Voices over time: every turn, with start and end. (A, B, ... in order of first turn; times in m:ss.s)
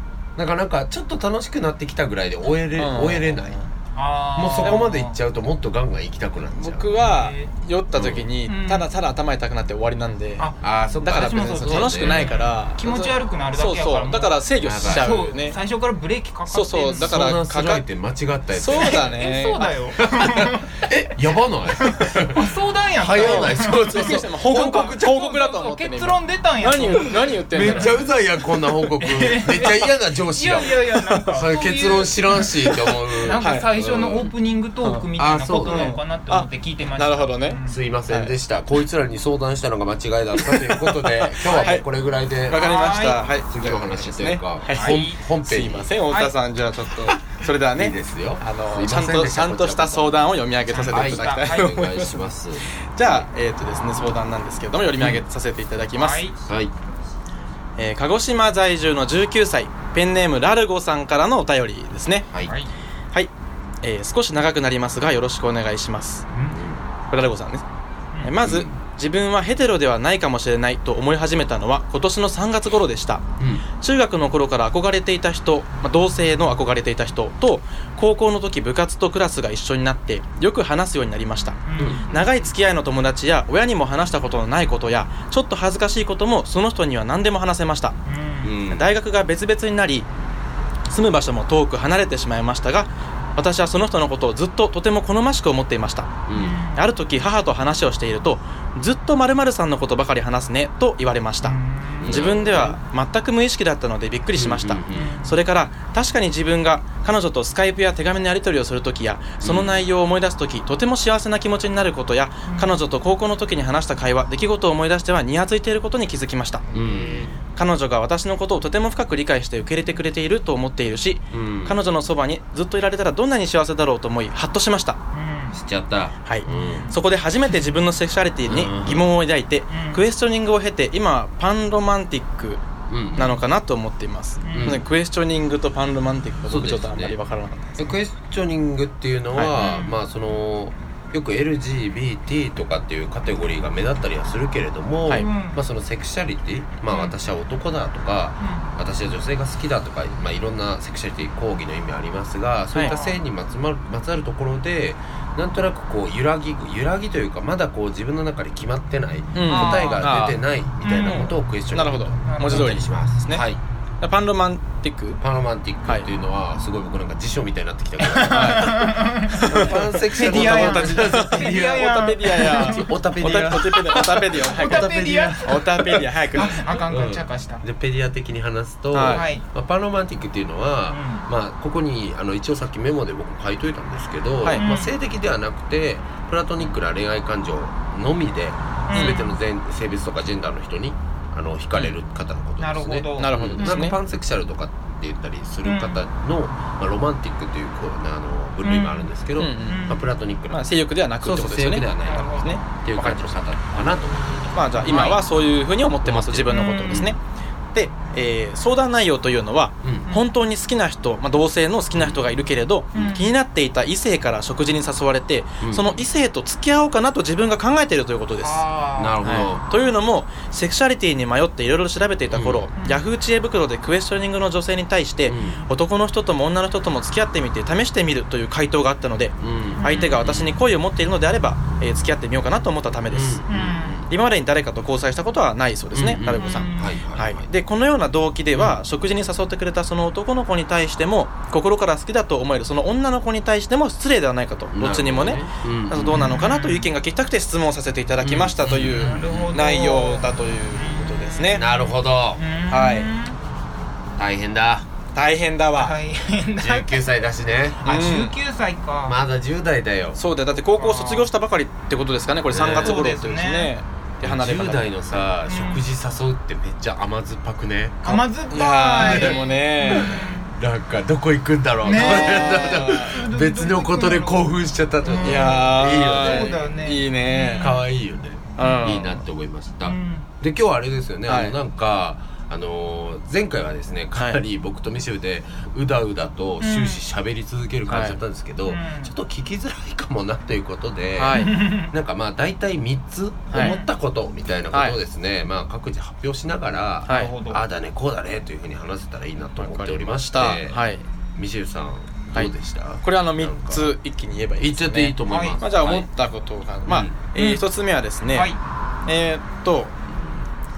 0:00.4-0:03.6 A
0:02.8-0:03.7 B
0:03.9-0:05.2 C
0:04.4-0:07.0 A
0:06.5-0:10.5 B
0:06.9-0:07.5 C
0:07.9-0:08.3 A
0:08.5-0:08.9 C
0:10.4-0:17.1 C
0:10.6-0:12.4 A
0:11.0-0:15.6 B
0:14.6-0:15.2 A
0:16.5-0:17.8 B
0:16.9-0:19.2 A
0:18.5-0:19.8 B
0:18.7-0:20.8 C
0:20.0-0:24.8 A
0:21.7-0:28.0 C
0:23.2-0:28.0 B
0:27.5-0:34.3 A
0:29.0-0:37.8 C
0:33.4-0:33.7 B
0:35.2-0:36.0 A
0:35.7-0:38.3 B
0:37.7-0:46.0 A
0:40.4-0:41.8 B
0:41.4-0:41.8 C
0:42.5-0:56.2 B
0:42.5-0:43.3 C
0:44.8-0:45.2 C
0:46.1-0:46.4 C
0:47.7-0:50.3 A
0:50.7-0:51.8 C
0:50.9-0:53.3 A
0:55.0-0:55.2 A
0:55.9-0:56.4 C
0:56.4-0:56.7 A
0:57.8-1:02.2 B
1:02.3-1:02.5 A
1:02.4-1:02.7 C
1:03.1-1:06.2 B
1:06.3-1:06.6 C
1:06.5-1:06.8 A
1:07.1-1:07.6 B
1:08.1-1:08.4 C
1:08.2-1:13.2 B
1:08.4-1:08.8 A
1:13.4-1:13.6 A
1:13.8-1:28.0 B
1:21.6-1:22.3 C
1:21.8-1:22.1 A
1:28.0-1:28.6 C
1:28.4-1:28.9 A
1:28.6-1:30.1 B
1:30.9-1:36.2 B
1:36.3-1:36.6 A
1:36.3-1:36.8 C
1:36.7-1:56.6 B
1:41.4-1:42.1 C
1:42.0-1:42.8 A
1:44.3-1:45.2 A
1:44.9-1:45.4 C
1:49.4-1:49.8 A
1:52.4-1:52.8 C
1:56.7-1:57.2 C
1:56.7-1:57.4 A
1:57.5-2:05.0 B
2:01.3-2:01.8 A
2:05.1-2:05.6 C
2:05.5-2:06.9 A
2:06.2-2:12.6 B
2:06.5-2:07.0 C
2:08.5-2:09.0 A
2:09.7-2:10.0 C
2:12.9-2:13.3 A
2:13.1-2:17.9 B
2:14.4-2:14.8 C
2:14.5-2:14.8 A
2:16.5-2:17.2 A
2:17.8-2:43.6 A
2:19.5-2:20.0 C
2:25.2-2:25.6 C
2:28.4-2:28.7 C
2:32.8-2:33.2 C
2:39.3-2:40.4 B
2:39.4-2:40.0 C
2:40.8-2:41.3 C
2:41.0-2:43.4 B
2:42.2-2:42.8 C
2:44.0-2:45.2 B
2:45.2-3:20.7 A
2:48.0-2:53.0 C
2:48.3-2:56.6 B
2:53.5-2:57.6 C
2:58.9-2:59.2 B
2:59.0-2:59.4 C
3:00.9-3:01.2 C
3:04.4-3:04.7 B
3:04.5-3:04.9 C
3:08.9-3:09.4 C
3:08.9-3:09.2 B
3:12.6-3:13.9 C
3:13.2-3:14.0 B
3:15.6-3:16.0 C
3:18.6-3:19.1 C
3:19.4-3:20.0 B
3:19.7-3:20.1 C
3:20.5-3:23.2 B
3:21.2-3:25.1 A
3:22.0-3:22.6 C
3:24.5-3:27.2 B
3:24.8-3:25.2 C
3:26.0-3:27.2 A
3:26.5-3:27.1 C
3:27.7-3:38.6 B
3:29.8-3:30.1 A
3:31.9-3:32.2 A
3:32.9-3:33.3 C
3:35.6-3:36.0 A
3:38.4-3:39.2 C
3:39.0-3:39.6 A
3:39.2-3:53.4 B
3:42.3-3:42.7 A
3:42.8-3:43.0 C
3:45.2-3:45.6 A
3:49.4-3:50.5 A
3:49.8-3:50.2 C
3:53.1-3:54.1 A
3:53.5-3:54.0 C
3:54.0-4:11.6 B
3:55.9-3:57.5 A
3:56.4-3:57.0 C
3:58.5-3:58.8 A
4:04.7-4:06.3 A
4:06.1-4:06.9 C
4:08.2-4:09.5 A
4:08.8-4:13.4 C
4:11.5-4:12.4 A
4:12.7-4:13.1 B
4:14.2-4:14.9 A
4:15.1-4:15.9 B
4:15.7-4:17.0 C
4:16.6-4:18.0 A
4:17.8-4:19.2 C
4:17.8-4:18.3 B
4:19.0-4:20.2 A
4:20.1-4:25.2 B
4:20.6-4:21.3 C
4:22.5-4:23.0 A
4:22.6-4:23.7 C
4:24.2-4:28.2 A
4:25.4-4:25.8 C
4:28.0-4:30.5 C
4:28.5-4:30.2 B
4:29.0-4:36.7 A
4:31.8-4:37.8 C
4:31.9-4:33.2 B
4:35.2-4:37.7 B
4:37.6-5:00.8 A
4:38.6-4:39.2 B
4:39.8-4:40.3 C
4:41.3-4:41.6 B
4:46.6-4:47.0 C
4:47.9-4:48.2 B
4:48.6-4:49.1 C
4:51.2-4:51.6 B
4:51.3-4:51.9 C
4:53.5-4:53.8 B
4:53.5-4:53.9 C
4:54.7-4:55.0 B
4:57.0-4:57.3 B
4:57.1-4:57.6 C
4:59.6-5:01.0 B
5:01.4-5:03.9 A
5:02.3-5:08.5 B
5:04.6-5:06.1 A
5:05.2-5:05.6 C
5:06.9-5:07.2 A
5:07.3-5:07.6 C
5:08.3-5:08.6 C
5:09.0-5:10.0 B
5:10.1-5:10.4 A